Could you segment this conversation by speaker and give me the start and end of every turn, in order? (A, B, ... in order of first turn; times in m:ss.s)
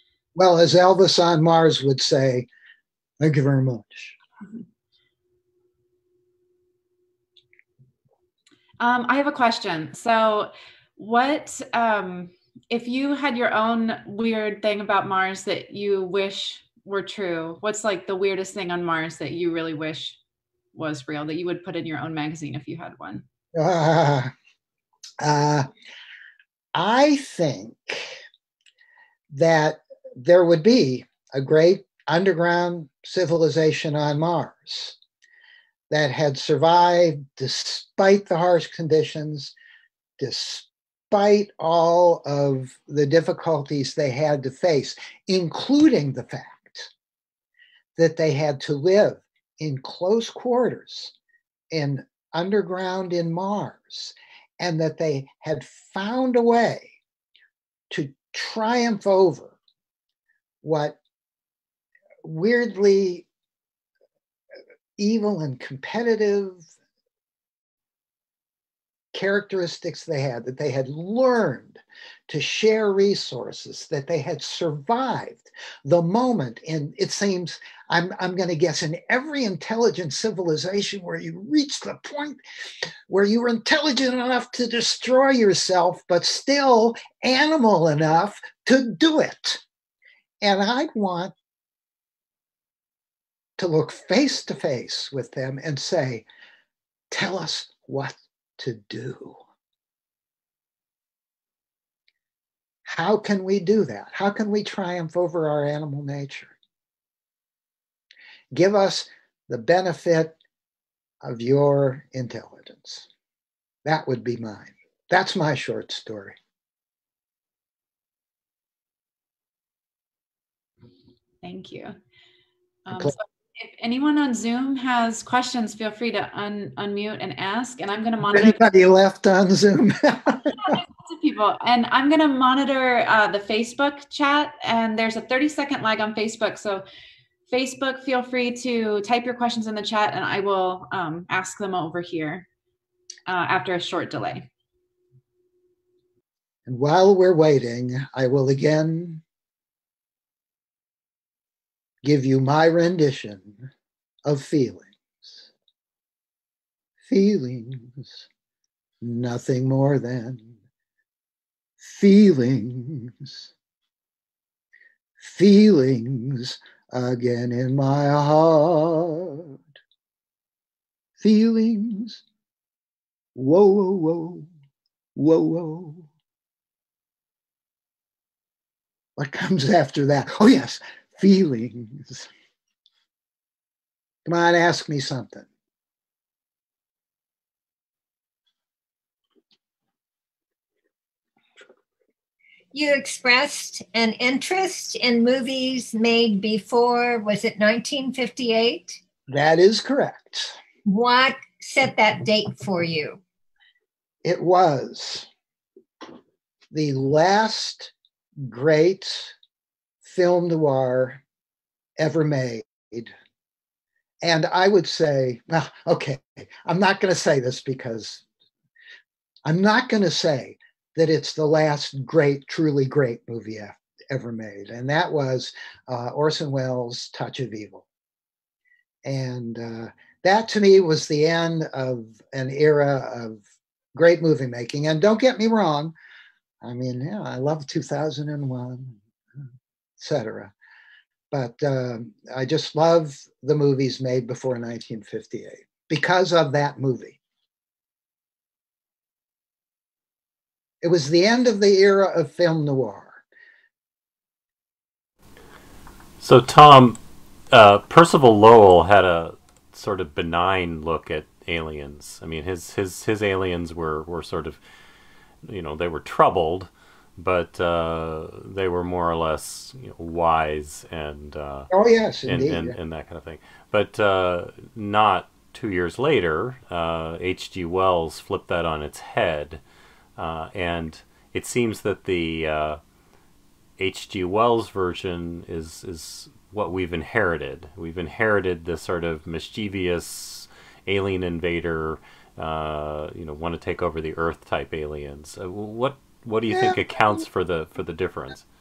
0:00.4-0:02.5 A
0:03.2-0:04.2 A
0:08.8-0:20.2 B
0:20.7-0:23.2 B
0:23.5-0:24.3 A
0:25.2-0:25.7 A
0:26.7-0:28.2 A
0:29.3-0:35.0 A
0:35.9-0:39.5 A
0:40.2-0:46.9 A
0:48.0-0:51.1 A
0:51.7-0:56.9 A
0:57.9-0:59.6 A
1:00.6-1:01.0 A
1:02.2-1:03.2 A
1:05.0-1:06.6 A
1:09.1-1:22.4 A
1:23.1-1:29.6 A
1:30.4-1:31.3 A
1:33.6-1:36.2 A
1:37.1-1:39.4 A
1:42.8-1:46.5 A
1:48.5-1:50.4 A
1:51.2-1:53.1 A
1:53.8-1:56.4 A
2:01.4-2:02.0 B
2:02.8-2:08.6 B
2:08.2-2:10.8 A
2:10.6-2:16.8 B
2:17.5-2:22.4 B
2:23.3-2:24.5 B
2:26.6-2:29.2 A
2:32.0-2:33.7 A
2:34.2-2:35.5 A
2:37.0-2:38.2 A
2:39.0-2:40.6 A
2:41.8-2:43.5 A
2:45.2-2:49.6 A
2:51.2-2:52.2 A
2:53.3-2:54.5 A
2:55.1-2:56.1 A
2:59.2-3:02.3 A
3:04.2-3:05.5 A
3:12.7-3:19.0 C
3:19.3-3:20.6 A
3:20.8-3:23.2 C
3:24.2-3:25.3 A
3:26.7-3:29.3 A
3:30.0-3:31.2 A
3:32.0-3:33.1 A
3:34.2-3:38.2 A
3:39.4-3:47.8 A
3:49.0-3:53.4 A
3:54.0-3:55.9 A
3:56.6-3:59.5 A
4:00.0-4:00.5 A
4:01.3-4:07.2 A
4:10.8-4:13.2 A
4:16.2-4:17.0 D
4:17.5-4:24.6 D
4:25.4-4:31.7 D
4:31.7-4:32.8 A
4:32.2-4:39.6 D
4:40.2-4:42.8 D
4:43.8-4:58.5 D
4:56.5-4:56.8 A